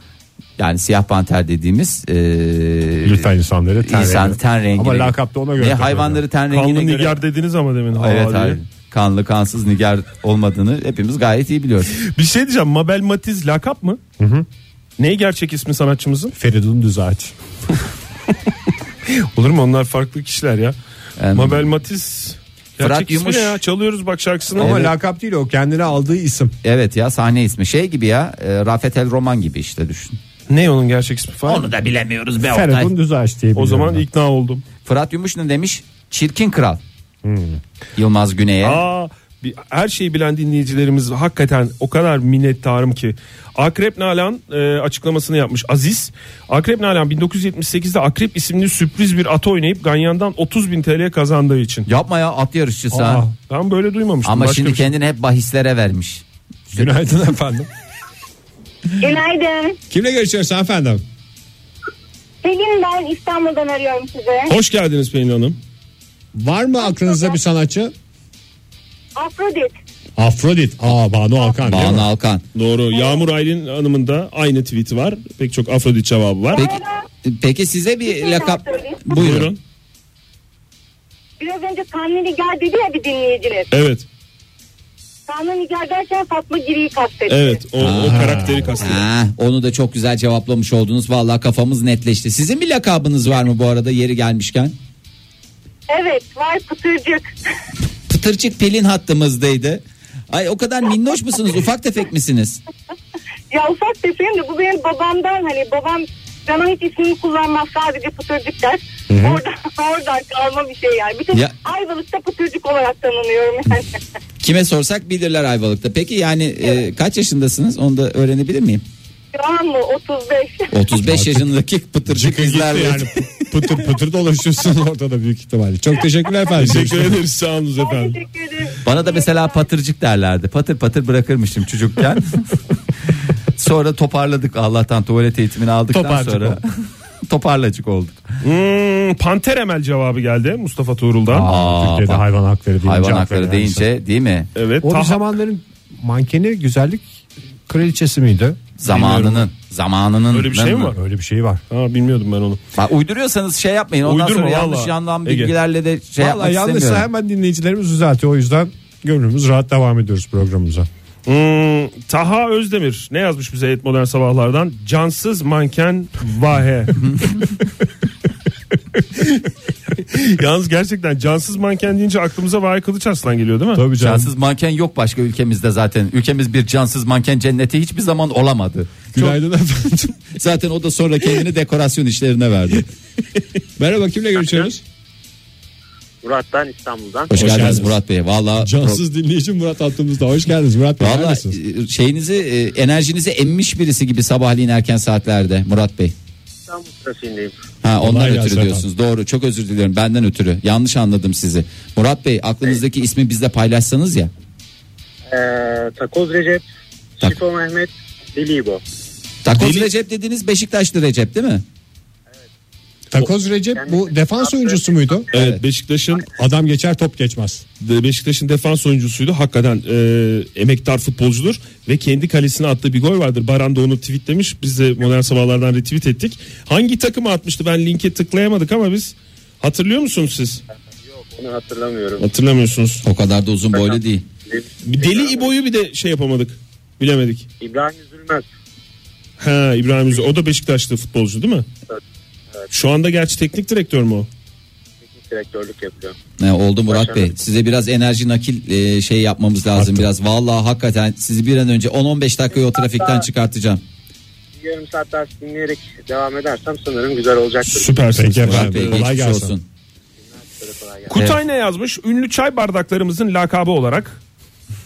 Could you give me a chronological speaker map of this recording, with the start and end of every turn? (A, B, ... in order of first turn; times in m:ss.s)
0:00.6-0:03.3 A
0:03.0-0:06.2 B
0:03.8-0:07.2 A
0:06.5-0:08.6 C
0:08.0-0:11.9 A
0:12.0-0:14.0 C
0:14.2-0:14.4 B
0:15.0-0:16.3 C
0:16.3-0:17.3 B
0:19.1-0:20.8 C
0:21.2-0:21.6 A
0:21.3-0:24.8 C
0:22.8-0:23.6 A
0:24.6-0:26.5 B
0:24.6-0:24.9 A
0:26.6-0:30.2 A
0:30.5-0:31.7 C
0:31.5-0:32.9 A
0:32.4-0:34.0 B
0:33.5-0:34.6 C
0:34.8-0:36.8 A
0:37.2-0:37.6 B
0:38.0-0:38.8 A
0:38.6-0:51.9 C
0:51.8-0:53.2 A
0:52.9-0:53.3 B
0:53.5-0:54.9 C
0:54.2-0:56.2 A
0:56.7-0:57.7 B
0:59.0-0:59.8 D
0:59.9-1:01.0 B
1:02.4-1:04.5 D
1:04.5-1:05.6 C
1:06.3-1:07.9 B
1:06.9-1:07.3 D
1:09.2-1:09.7 D
1:10.2-1:12.1 B
1:11.6-1:12.4 A
1:12.5-1:16.6 C
1:16.5-1:17.0 D
1:16.5-1:19.5 A
1:18.0-1:19.2 D
1:19.1-1:19.6 C
1:21.4-1:23.7 D
1:23.7-1:24.0 C
1:25.3-1:27.6 D
1:27.3-1:29.0 C
1:27.8-1:34.8 A
1:28.0-1:28.8 B
1:35.9-1:37.3 D
1:38.1-1:42.6 A
1:43.5-1:53.9 D
1:49.1-1:49.4 B
1:54.4-1:58.8 A
1:59.3-2:00.7 D
2:00.7-2:03.1 A
2:01.1-2:01.5 B
2:02.1-2:07.2 B
2:06.6-2:08.2 C
2:07.8-2:09.3 D
2:08.8-2:12.6 A
2:13.5-2:16.6 A
2:15.9-2:16.6 B
2:17.3-2:18.2 A
2:18.4-2:21.5 C
2:21.3-2:23.9 B
2:21.3-2:22.2 A
2:22.8-2:24.5 A
2:24.5-2:25.3 C
2:24.8-2:27.0 B
2:27.7-2:28.6 B
2:28.8-2:30.9 A
2:28.8-2:29.4 C
2:30.3-2:31.0 C
2:30.9-2:31.6 B
2:31.7-2:32.6 C
2:32.8-2:37.1 A
2:34.0-2:35.5 C
2:36.2-2:40.9 B
2:41.2-2:47.4 C
2:47.0-2:47.3 A
2:49.2-2:49.4 C
2:50.0-2:53.8 C
2:53.7-2:54.3 B
2:54.0-2:59.3 A
2:59.1-3:00.2 B
3:00.3-3:02.8 A
3:03.8-3:04.8 B
3:06.2-3:07.5 E
3:07.3-3:09.0 A
3:07.3-3:08.0 B
3:07.4-3:07.8 C
3:08.6-3:11.6 B
3:11.0-3:16.1 A
3:16.7-3:17.5 E
3:17.8-3:24.3 A
3:18.0-3:18.9 B
3:25.3-3:26.6 E
3:27.2-3:28.8 E
3:29.4-3:31.6 A
3:29.5-3:29.9 C
3:33.1-3:35.3 B
3:33.7-3:35.2 E
3:35.3-3:36.3 C
3:36.3-3:37.6 B
3:37.8-3:50.6 C
3:51.1-3:52.2 E
3:52.2-3:53.0 C
3:53.0-3:54.2 A
3:53.7-3:55.5 E
3:54.8-3:57.5 C
3:57.6-3:58.5 E
3:59.4-4:01.7 C
4:02.7-4:04.3 C
4:05.1-4:06.1 E
4:06.4-4:13.8 A
4:06.9-4:07.3 E
4:09.7-4:10.1 B
4:12.7-4:13.2 E
4:14.6-4:18.2 E
4:17.6-4:19.0 C
4:18.1-4:19.5 B
4:18.4-4:19.6 A
4:20.4-4:21.2 E
4:21.1-4:24.2 C